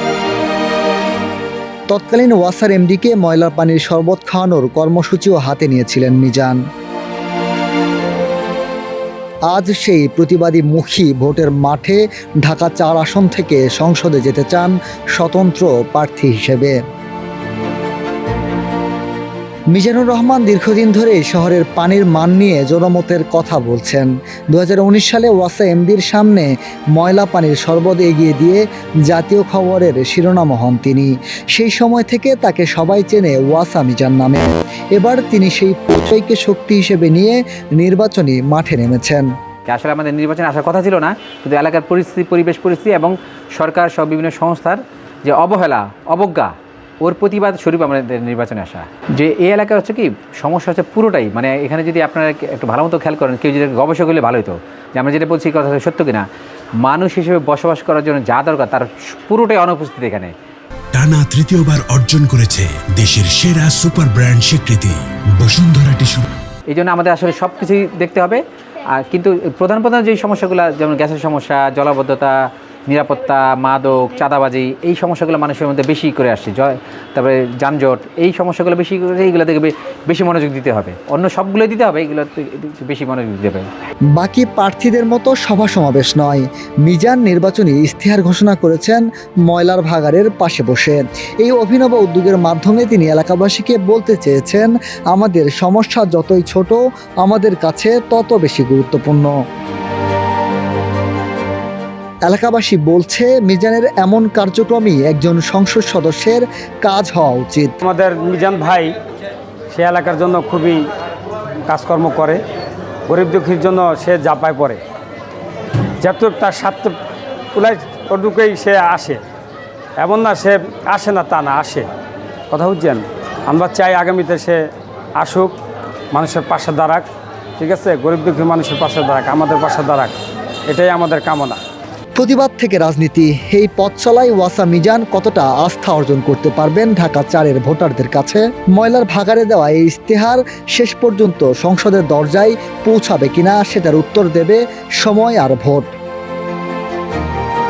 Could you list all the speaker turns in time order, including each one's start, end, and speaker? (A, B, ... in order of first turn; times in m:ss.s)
0:01.9-0:06.6 A
0:09.5-0:16.8 A
0:19.7-0:39.2 A
0:39.6-0:56.2 B
0:56.8-1:00.3 B
1:00.9-1:06.2 C
1:06.7-1:23.7 B
1:24.2-1:39.3 A
1:42.2-1:47.8 A
1:47.8-1:48.9 D
1:49.7-1:50.8 D
1:51.7-1:52.4 D
1:53.1-1:54.8 D
1:56.0-1:56.9 D
1:57.5-1:59.2 D
2:00.0-2:01.9 D
2:02.5-2:04.6 D
2:05.2-2:05.5 D
2:06.1-2:07.1 D
2:07.6-2:10.2 D
2:10.7-2:11.6 D
2:12.2-2:25.9 A